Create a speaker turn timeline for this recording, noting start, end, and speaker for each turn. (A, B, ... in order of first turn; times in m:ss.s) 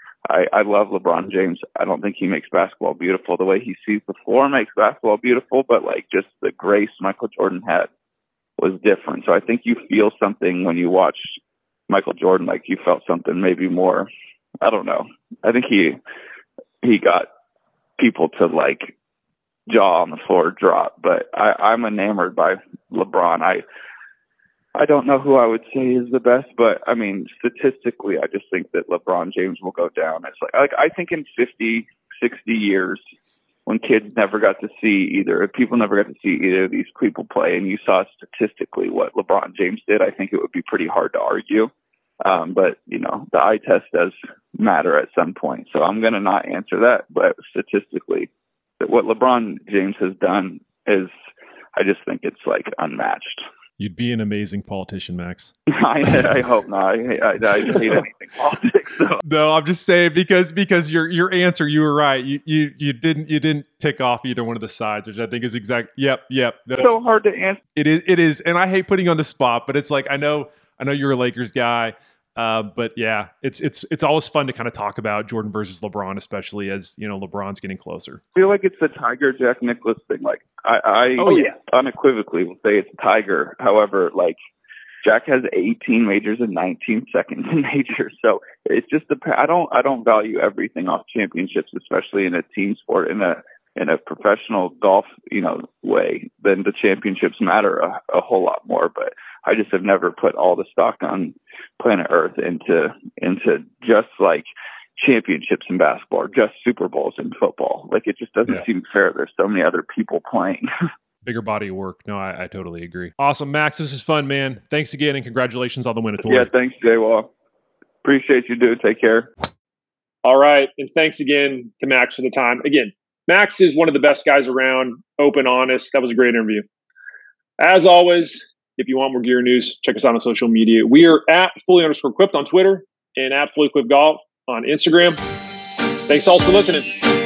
0:00.3-0:07.9 A
0:08.6-0:11.3 A
0:11.9-0:14.1 A
0:14.6-0:16.0 A
0:16.8-0:17.3 A
0:18.0-0:18.9 A
0:19.7-0:23.6 A
0:24.7-0:33.0 A
0:33.6-0:41.7 A
0:42.2-0:51.1 A
0:51.8-0:53.4 A
0:53.8-0:55.5 B
0:55.7-0:59.2 A
0:57.6-0:58.0 B
0:59.2-1:06.9 B
1:06.8-1:07.6 A
1:07.7-1:18.2 B
1:18.3-1:24.4 A
1:21.2-1:21.6 B
1:25.0-1:44.4 A
1:45.0-1:50.7 A
1:51.2-1:56.5 B
1:56.2-1:57.3 A
1:58.0-1:59.3 A
2:00.2-2:06.6 C
2:07.6-2:15.2 C
2:16.1-2:16.9 C